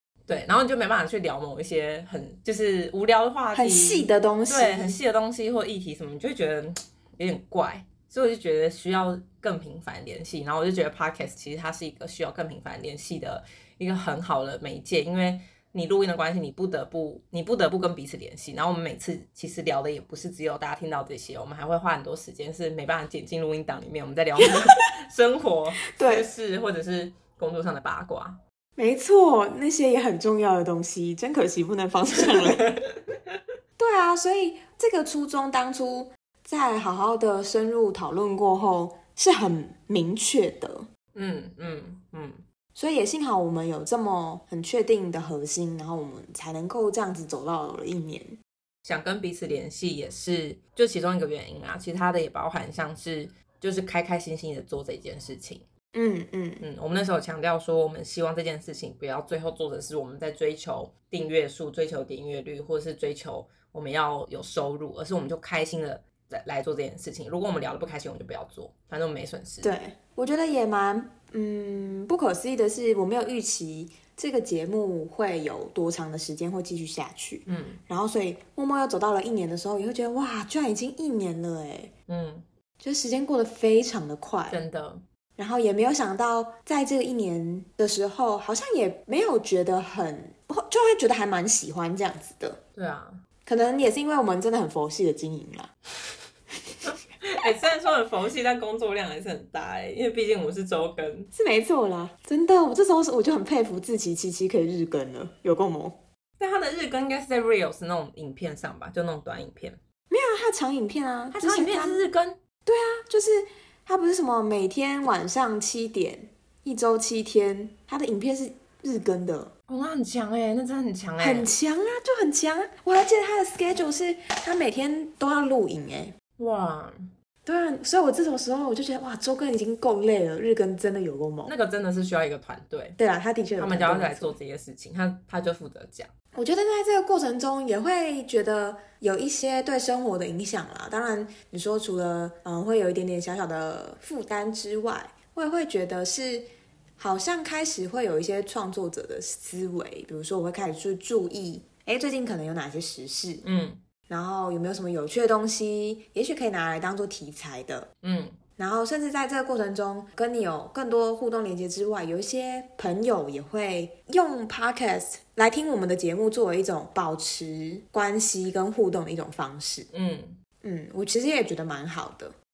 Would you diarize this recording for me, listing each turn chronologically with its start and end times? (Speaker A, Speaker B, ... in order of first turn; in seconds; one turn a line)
Speaker A: 0.3-28.4
Speaker B: 3.5-5.0
Speaker B: 26.0-26.3
Speaker B: 28.8-32.7
Speaker A: 32.3-33.4
Speaker B: 33.8-40.9
Speaker A: 41.1-42.4
Speaker B: 42.8-48.4
Speaker A: 48.9-55.6
Speaker B: 55.9-56.6
Speaker A: 56.6-69.7
Speaker B: 69.6-81.9
Speaker A: 77.5-77.8
Speaker A: 82.1-82.5
Speaker B: 82.8-84.6
Speaker A: 84.5-85.0
Speaker B: 85.4-92.6
Speaker A: 92.8-93.2
Speaker B: 93.5-95.7
Speaker A: 96.9-101.3
Speaker B: 101.3-106.0
Speaker A: 106.4-109.8
Speaker B: 110.1-112.0
Speaker A: 111.3-112.4
Speaker B: 112.7-119.5
Speaker A: 119.7-121.5
Speaker B: 121.2-126.1
Speaker A: 126.4-127.1
Speaker B: 127.5-131.5
Speaker A: 131.4-133.0
Speaker B: 133.0-134.4
Speaker A: 133.6-136.1
Speaker B: 136.3-146.5
Speaker B: 147.0-153.4
Speaker A: 153.4-153.8
Speaker B: 154.1-157.9
Speaker A: 158.0-158.4
Speaker B: 158.6-169.9
Speaker A: 169.9-170.4
Speaker B: 170.6-172.3